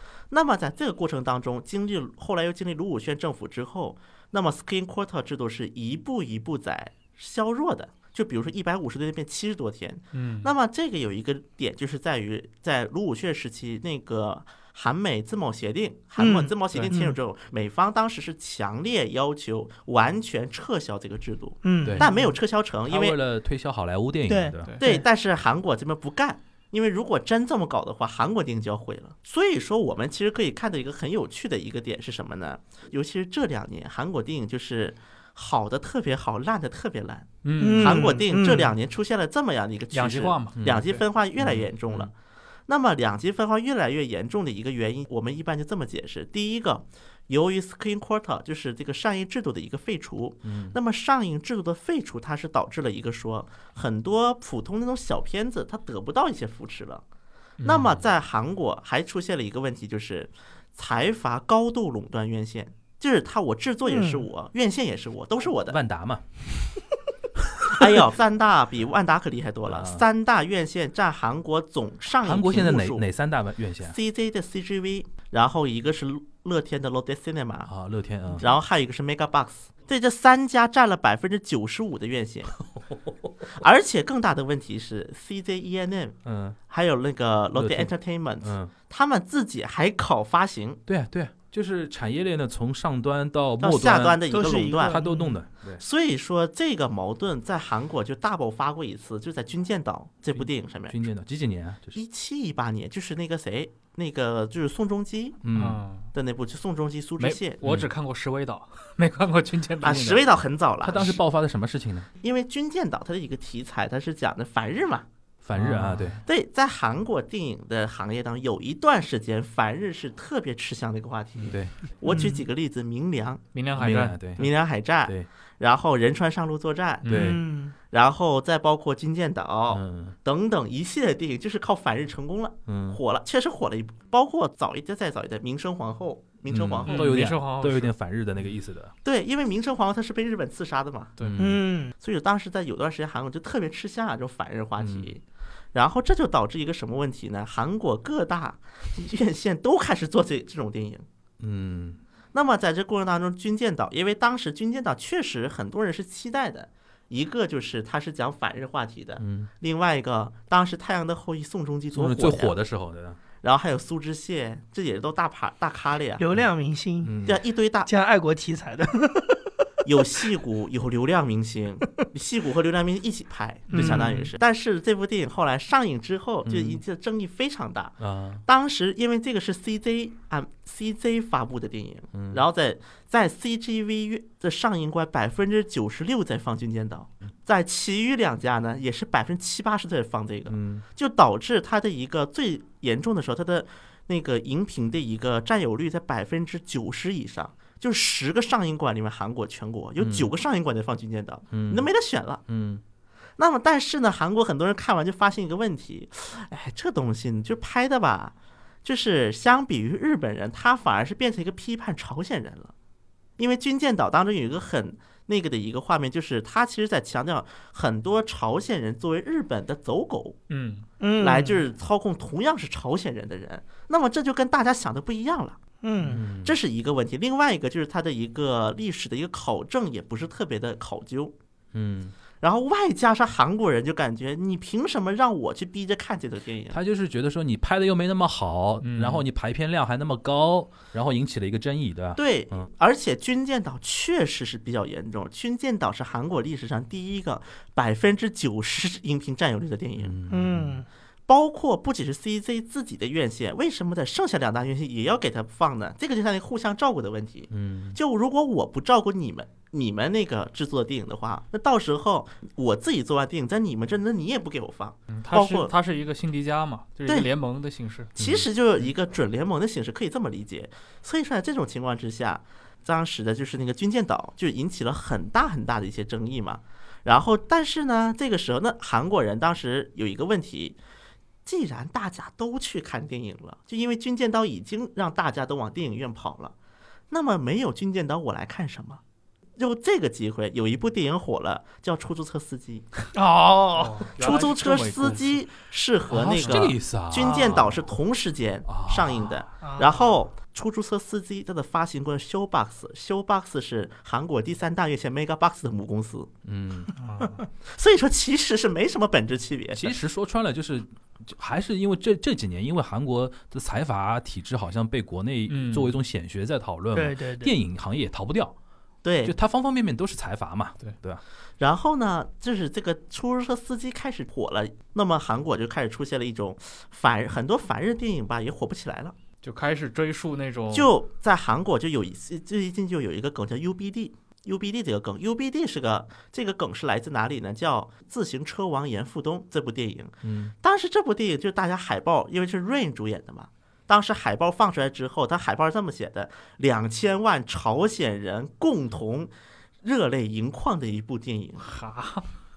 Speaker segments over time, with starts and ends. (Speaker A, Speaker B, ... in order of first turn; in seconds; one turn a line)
Speaker A: 0.3-23.2
Speaker B: 10.1-10.5
Speaker C: 16.2-17.2
Speaker C: 21.6-22.4
Speaker D: 22.9-24.8
Speaker C: 24.3-25.1
Speaker A: 24.8-42.1
Speaker B: 37.4-38.1
Speaker C: 37.6-38.7
Speaker B: 39.9-41.0
Speaker D: 40.6-42.1
Speaker A: 42.7-57.0
Speaker D: 50.4-50.8
Speaker B: 57.6-58.0
Speaker A: 57.6-65.8
Speaker C: 63.9-64.3
Speaker D: 65.7-66.2
Speaker A: 67.7-73.1
Speaker D: 69.7-70.0
Speaker D: 72.2-74.0
Speaker A: 73.8-77.7
Speaker D: 77.7-78.5
Speaker A: 78.4-82.6
Speaker D: 82.8-83.3
Speaker A: 83.5-86.2
Speaker D: 86.2-86.6
Speaker A: 86.7-90.8
Speaker D: 87.5-88.7
Speaker D: 90.9-95.8
Speaker A: 93.6-95.0
Speaker C: 94.3-95.3
Speaker A: 95.8-101.0
Speaker D: 100.9-102.0
Speaker A: 101.9-105.4
Speaker D: 105.4-105.8
Speaker B: 105.5-106.1
Speaker A: 106.1-107.6
Speaker B: 107.2-110.2
Speaker A: 109.8-111.2
Speaker D: 110.8-112.1
Speaker A: 112.2-115.1
Speaker D: 115.4-116.2
Speaker B: 115.5-116.2
Speaker A: 116.3-123.4
Speaker D: 121.5-121.7
Speaker C: 122.1-122.4
Speaker B: 123.5-124.2
Speaker D: 123.8-124.5
Speaker A: 124.4-127.4
Speaker D: 127.1-127.4
Speaker C: 127.1-127.7
Speaker A: 127.9-137.1
Speaker D: 129.7-130.2
Speaker D: 132.7-133.0
Speaker D: 136.5-138.9
Speaker B: 136.9-137.9
Speaker A: 139.0-141.2
Speaker D: 141.2-141.6
Speaker C: 141.4-141.9
Speaker A: 142.0-145.2
Speaker D: 144.8-145.1
Speaker A: 145.7-151.1
Speaker D: 151.4-152.0
Speaker A: 152.3-162.6
Speaker D: 159.2-159.5
Speaker D: 161.9-163.2
Speaker A: 163.4-166.2
Speaker C: 166.2-167.1
Speaker D: 167.0-167.4
Speaker A: 167.2-167.9
Speaker C: 167.9-169.5
Speaker A: 169.8-202.4
Speaker C: 173.7-174.3
Speaker D: 173.8-174.1
Speaker D: 176.4-176.8
Speaker D: 178.0-178.4
Speaker D: 182.1-182.4
Speaker D: 190.5-190.8
Speaker D: 200.0-200.3
Speaker D: 201.5-201.9
Speaker D: 202.5-202.8
Speaker A: 203.4-212.7
Speaker A: 213.4-220.4
Speaker B: 220.5-220.8
Speaker C: 221.0-221.6
Speaker A: 221.2-225.6
Speaker C: 225.8-226.2
Speaker D: 226.0-226.6
Speaker A: 226.3-231.3
Speaker D: 231.7-232.2
Speaker A: 232.4-236.8
Speaker D: 236.7-242.7
Speaker B: 238.8-239.2
Speaker A: 242.2-250.2
Speaker D: 250.0-250.8
Speaker C: 250.3-250.9
Speaker A: 251.3-265.7
Speaker D: 257.5-258.0
Speaker B: 265.1-268.1
Speaker D: 268.2-268.5
Speaker A: 268.2-280.8
Speaker A: 281.4-286.6
Speaker A: 287.1-289.0
Speaker A: 289.6-292.9
Speaker C: 293.1-294.1
Speaker B: 293.8-295.4
Speaker A: 294.2-306.3
Speaker D: 296.1-297.9
Speaker C: 297.2-297.6
Speaker D: 298.7-299.4
Speaker C: 299.6-300.0
Speaker D: 306.4-306.9
Speaker B: 307.0-307.4
Speaker A: 307.8-309.9
Speaker D: 309.7-318.6
Speaker B: 315.5-315.9
Speaker C: 316.9-317.5
Speaker A: 319.0-319.4
Speaker D: 319.2-321.2
Speaker A: 321.6-329.1
Speaker B: 329.4-330.9
Speaker A: 330.7-349.3
Speaker D: 340.2-340.5
Speaker A: 349.8-351.7
Speaker B: 351.6-352.3